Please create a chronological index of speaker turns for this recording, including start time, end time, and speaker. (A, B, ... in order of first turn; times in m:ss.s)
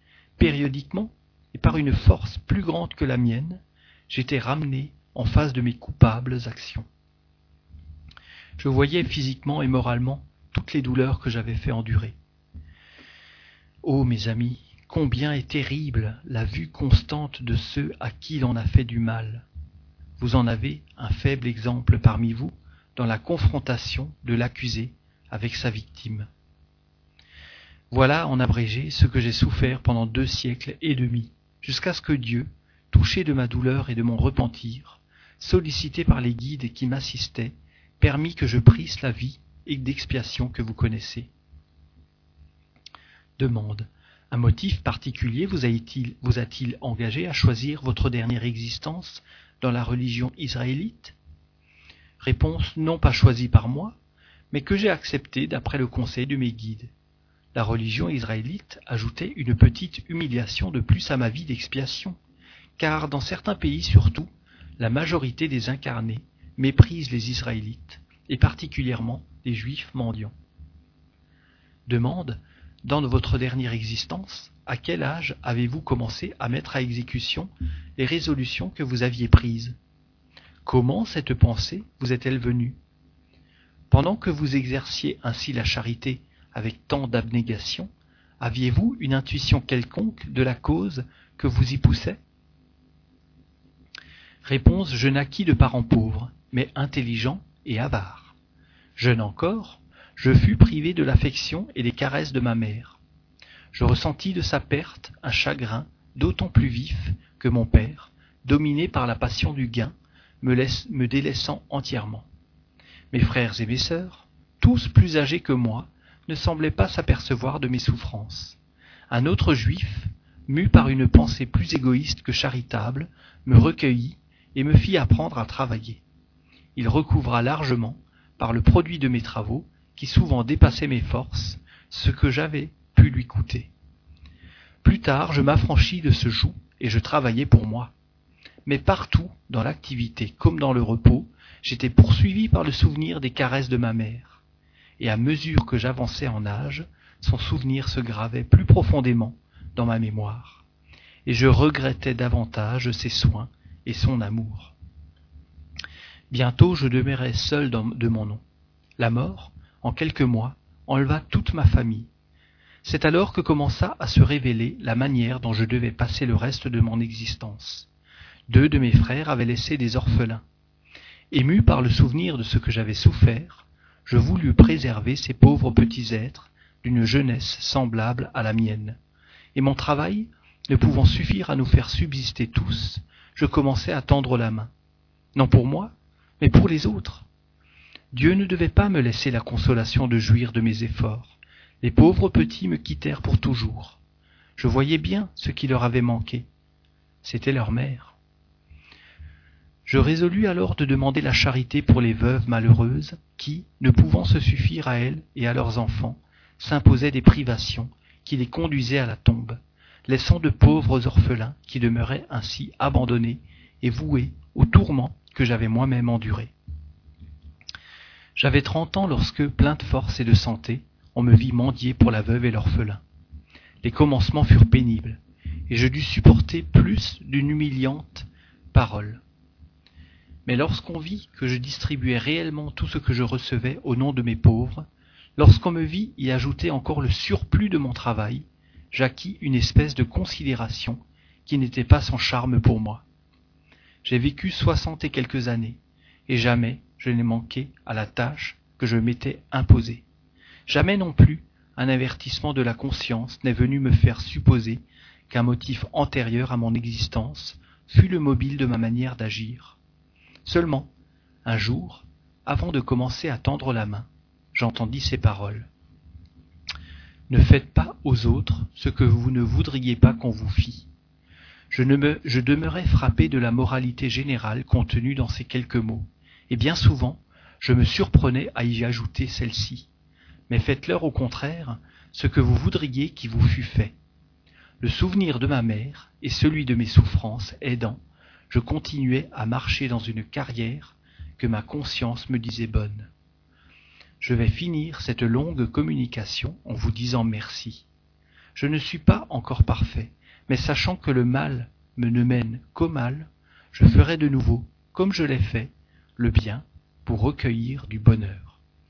0:00.4-0:06.8 A
0:08.6-0:12.2 A
0:13.8-0:19.4 A
0:20.2-0:26.3 A
0:27.9-0:41.3 A
0:43.4-0:51.2 A
0:52.2-0:54.0 A
0:54.5-0:56.9 A
0:57.5-1:02.2 A
1:02.8-1:10.3 A
1:11.9-1:19.7 A
1:20.6-1:22.8 A
1:23.9-1:32.2 A
1:34.4-1:38.3 A
1:39.0-1:43.0 A
1:43.7-1:52.3 A
1:53.1-1:58.6 A
1:59.1-2:06.0 A
2:06.8-2:13.7 A
2:14.8-2:17.9 A
2:18.6-2:24.4 A
2:25.0-2:30.6 A
2:31.2-2:34.7 A
2:36.3-2:38.4 A
2:39.0-2:42.1 A
2:42.8-2:47.9 A
2:48.5-2:50.4 A
2:51.3-2:59.0 A
2:59.5-3:04.7 A
3:05.3-3:07.2 A
3:08.1-3:14.0 A
3:14.6-3:16.4 A
3:17.2-3:18.2 A
3:19.8-3:36.5 A
3:38.4-3:43.0 A
3:43.8-3:49.2 A
3:50.4-3:54.8 A
3:55.4-4:03.0 A
4:04.0-4:10.0 A
4:10.7-4:19.8 A
4:20.4-4:20.9 A
4:21.4-4:25.7 A
4:27.3-4:30.9 A
4:31.7-4:39.9 A
4:40.5-4:43.9 A
4:44.8-4:53.1 A
4:54.2-4:57.8 A
4:58.6-5:08.6 A